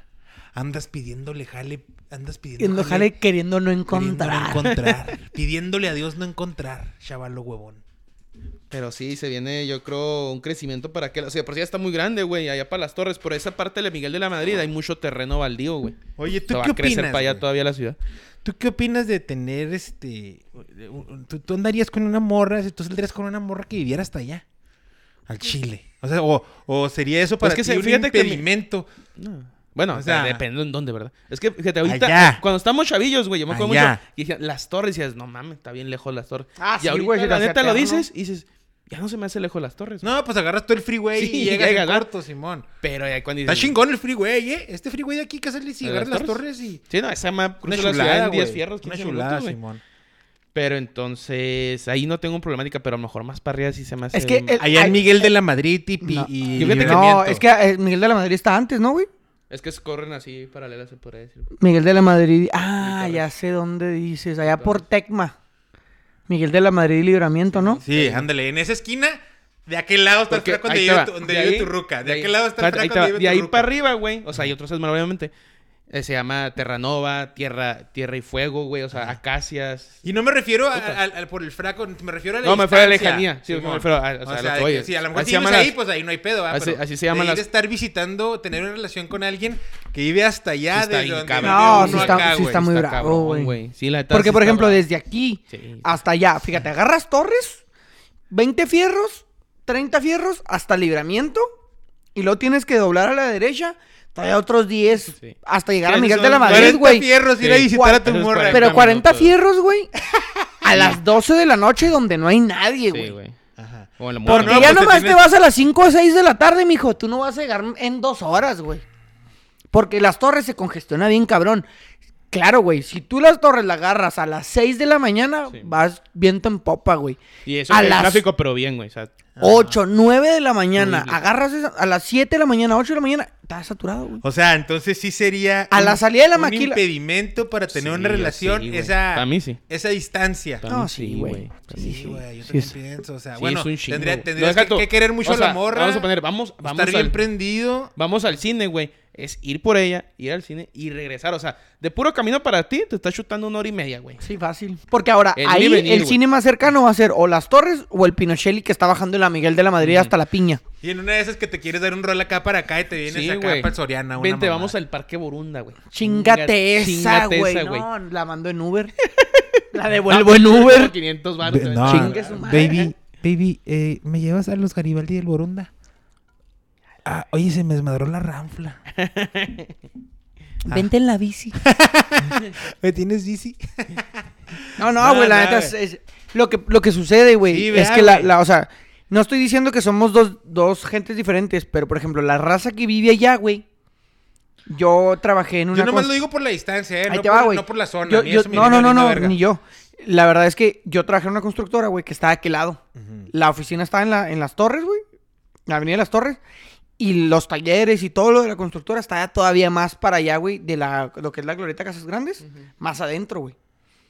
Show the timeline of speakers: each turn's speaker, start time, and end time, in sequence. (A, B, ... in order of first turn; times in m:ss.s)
0:00.5-0:03.1 A
0:02.6-0:04.7 B
0:03.9-0:07.8 A
0:04.6-0:05.1 C
0:08.7-0:16.0 C
0:16.2-0:17.4 A
0:16.5-0:18.0 C
0:18.4-0:24.4 A
0:25.3-0:28.9 A
0:27.4-0:28.4 C
0:29.2-0:40.1 C
0:29.9-0:30.4 A
0:31.8-0:32.4 A
0:33.5-0:34.0 A
0:36.6-0:38.0 B
0:40.0-0:42.7 A
0:41.2-0:42.0 C
0:42.8-0:43.8 C
0:43.4-0:46.8 A
0:45.8-0:49.6 C
0:47.6-0:49.8 A
0:50.5-0:55.0 C
0:54.1-0:55.3 B
0:54.6-0:57.4 A
0:56.0-0:59.1 B
0:56.6-0:57.0 C
0:59.5-1:01.5 C
1:01.6-1:05.3 B
1:02.8-1:03.3 C
1:04.5-1:04.8 C
1:06.3-1:07.8 B
1:07.5-1:08.2 C
1:07.8-1:13.7 A
1:10.3-1:15.3 C
1:15.9-1:20.0 C
1:18.9-1:19.2 A
1:20.0-1:32.6 A
1:20.7-1:21.0 C
1:22.4-1:25.8 C
1:26.5-1:27.4 C
1:30.7-1:34.8 C
1:31.4-1:33.5 B
1:34.1-1:37.6 B
1:35.5-1:35.9 C
1:38.3-1:41.4 B
1:42.1-1:49.9 B
1:45.8-1:48.8 A
1:46.4-1:46.8 C
1:47.4-1:49.3 C
1:50.1-1:50.8 A
1:50.6-1:53.1 B
1:52.9-1:53.4 C
1:53.6-1:55.3 A
1:54.0-1:54.9 C
1:54.2-1:58.8 B
1:59.7-2:01.6 B
2:02.3-2:08.2 B
2:07.4-2:09.2 C
2:09.4-2:09.8 A
2:09.4-2:14.2 B
2:10.8-2:11.2 C
2:14.2-2:20.6 A
2:15.7-2:16.8 B
2:17.7-2:19.6 C
2:20.6-2:22.1 C
2:20.7-2:22.7 B
2:21.7-2:26.1 A
2:23.4-2:27.3 C
2:26.6-2:27.9 A
2:28.0-2:34.2 C
2:34.2-2:40.6 B
2:35.4-2:36.2 C
2:39.8-2:40.1 C
2:40.8-2:44.7 A
2:43.0-2:47.9 C
2:45.9-2:48.9 B
2:49.1-2:49.5 C
2:49.7-2:50.9 B
2:50.1-2:52.8 C
2:51.4-2:55.7 A
2:51.8-2:52.9 B
2:57.0-2:58.8 A
2:58.9-2:59.7 C
3:00.6-3:01.6 B
3:01.6-3:05.7 A
3:04.8-3:13.6 B
3:07.4-3:08.3 A
3:14.7-3:16.1 B
3:15.7-3:19.4 A
3:17.1-3:25.0 B
3:23.0-3:23.3 A
3:25.7-3:26.4 B
3:27.0-3:33.5 B
3:32.4-3:32.7 C